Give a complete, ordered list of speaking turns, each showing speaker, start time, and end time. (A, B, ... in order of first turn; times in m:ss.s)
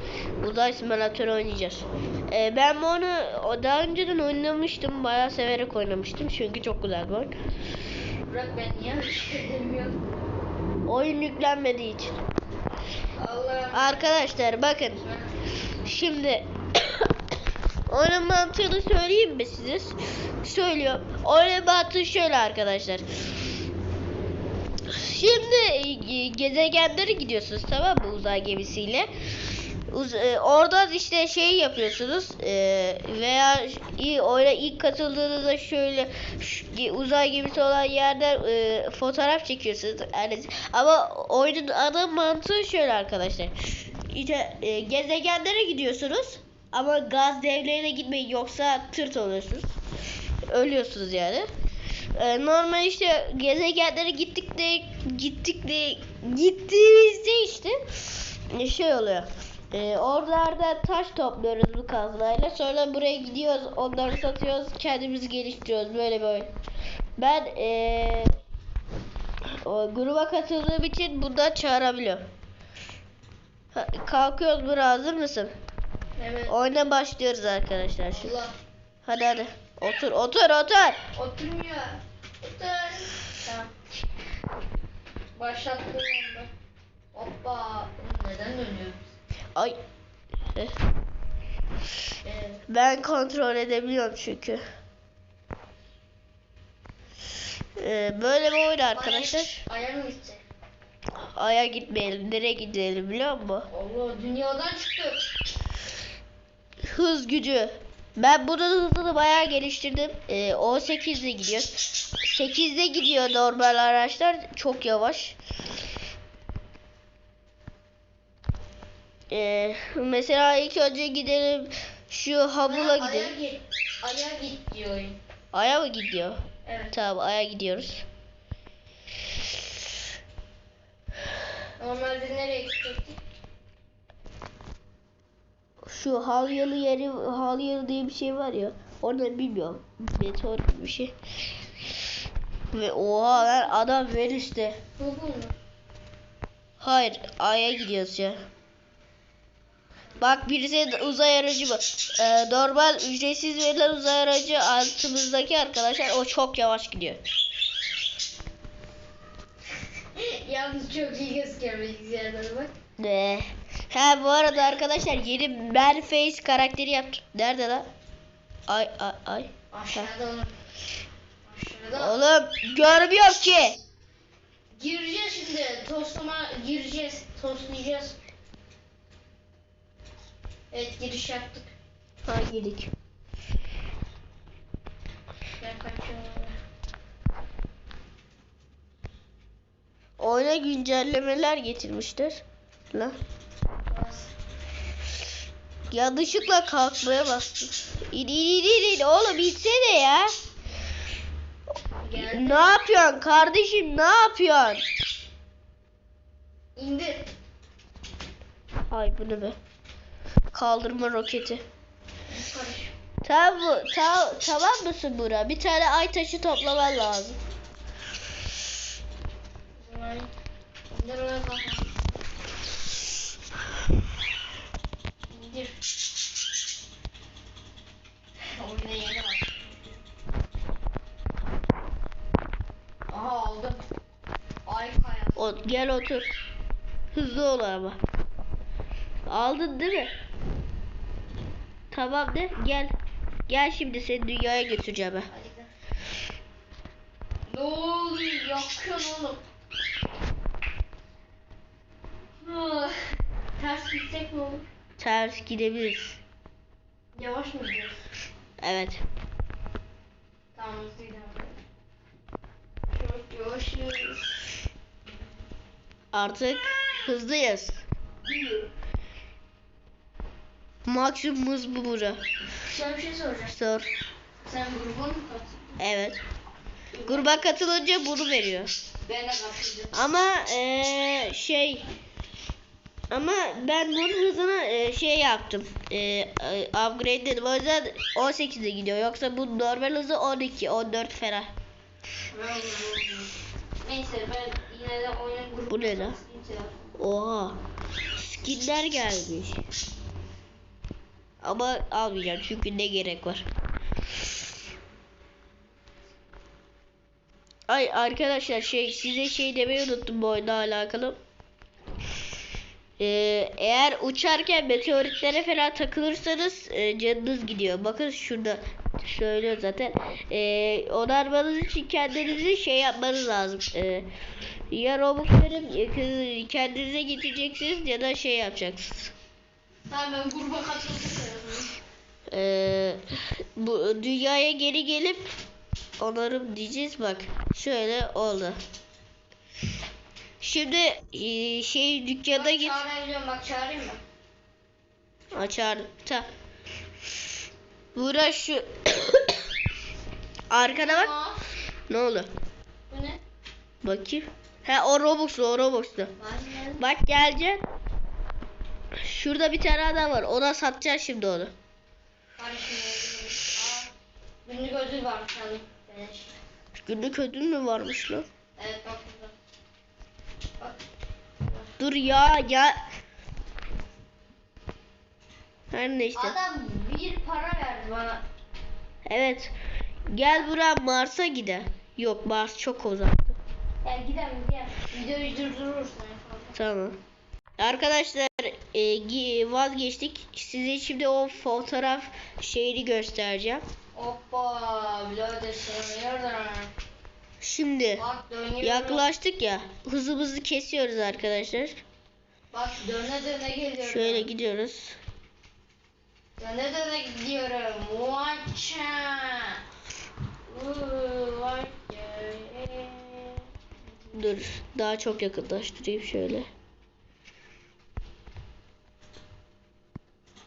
0:00.4-0:07.3 A
0:08.3-0:10.0 B
0:10.8-0:12.2 A
0:13.2-0:14.2 B
0:13.7-0:15.0 A
0:15.0-0:15.3 B
0:15.8-0:17.1 A
0:17.9-0:23.0 A
0:24.9-0:29.1 A
0:29.9-0:49.7 A
0:50.5-0:51.5 A
0:52.1-1:06.5 A
1:07.2-1:08.3 A
1:09.6-1:12.2 A
1:13.7-1:15.5 A
1:16.2-1:16.5 B
1:16.5-1:18.3 A
1:18.1-1:18.5 B
1:19.0-1:21.0 A
1:21.1-1:23.7 B
1:25.4-1:26.5 B
1:27.1-1:29.1 B
1:32.2-1:32.6 B
1:32.7-1:34.6 A
1:37.8-1:39.6 A
1:38.9-1:40.4 B
1:41.3-1:43.7 A
1:43.7-1:45.3 B
1:46.8-1:55.4 A
1:59.3-2:03.3 A
2:02.6-2:05.2 B
2:05.5-2:08.0 A
2:06.6-2:06.9 B
2:11.8-2:13.2 B
2:15.8-2:21.1 A
2:22.7-2:24.8 A
2:25.0-2:25.5 B
2:26.8-2:28.4 A
2:30.2-2:37.2 A
2:40.2-2:42.7 B
2:43.0-2:47.9 A
2:48.7-2:50.1 A
2:49.7-2:50.5 B
2:51.4-2:52.2 B
2:52.0-2:53.8 A
2:54.7-2:58.2 B
3:00.7-3:01.7 B
3:02.2-3:02.9 A
3:05.6-3:06.6 B
3:10.2-3:13.2 A
3:13.9-3:14.3 B
3:15.9-3:20.3 A
3:22.0-3:23.1 B
3:22.2-3:24.8 A
3:26.8-3:27.3 B
3:28.9-3:29.6 A
3:30.5-3:31.6 A
3:32.3-3:32.9 B
3:33.2-3:37.4 A
3:39.8-3:40.3 B
3:40.9-3:42.0 B
3:45.3-3:45.8 B
3:48.5-3:50.0 B
3:53.1-3:53.8 B
3:54.6-3:55.4 B
3:55.4-3:56.3 A
3:57.1-3:58.0 A
3:59.3-4:00.1 A
4:01.9-4:02.9 A
4:03.5-4:05.3 A
4:05.3-4:05.7 B
4:07.5-4:09.4 B
4:12.4-4:14.6 B
4:15.0-4:16.2 A
4:17.2-4:18.0 B
4:18.6-4:19.0 A
4:20.5-4:21.6 B
4:22.9-4:24.4 B
4:26.1-4:27.8 A
4:28.2-4:28.7 B
4:30.8-4:32.2 A
4:32.6-4:33.6 B
4:33.5-4:33.9 A
4:34.4-4:35.8 B
4:35.8-4:36.2 A
4:36.9-4:37.5 B
4:37.1-4:38.7 A
4:39.0-4:40.0 B
4:39.9-4:41.8 A
4:43.1-4:51.5 A
4:52.3-4:56.9 B
4:55.7-4:56.2 A
4:57.0-4:57.6 A
4:58.2-4:59.6 A
5:01.4-5:03.4 A
5:07.7-5:11.2 A
5:13.0-5:24.1 A
5:24.7-5:29.1 A
5:29.9-5:31.8 B
5:32.3-5:33.0 A
5:33.6-5:35.3 A
5:36.0-5:38.6 A
5:40.4-5:42.8 A
5:42.3-5:44.0 B
5:45.3-5:46.3 A
5:47.9-5:49.4 A
5:50.5-5:51.1 A
5:50.6-5:51.4 B
5:51.9-5:52.3 A
5:52.9-5:53.2 B
5:53.8-5:56.1 A
5:56.2-5:56.8 B
5:56.8-5:57.6 A
5:59.0-6:01.5 A
6:02.4-6:03.9 B
6:04.4-6:06.3 B
6:06.8-6:08.2 A
6:08.6-6:09.3 B
6:11.4-6:11.7 B
6:11.8-6:12.8 A
6:15.7-6:16.4 A
6:16.1-6:18.2 B
6:19.0-6:19.5 A
6:20.1-6:23.4 A
6:23.8-6:26.6 B
6:26.5-6:27.0 A
6:27.6-6:33.6 A
6:33.9-6:36.7 B
6:37.4-6:38.0 A
6:38.0-6:39.1 B
6:38.6-6:41.8 A
6:42.5-6:44.3 B
6:43.8-6:45.0 A
6:46.4-6:49.6 B
6:50.5-6:53.5 B
6:54.1-6:56.5 A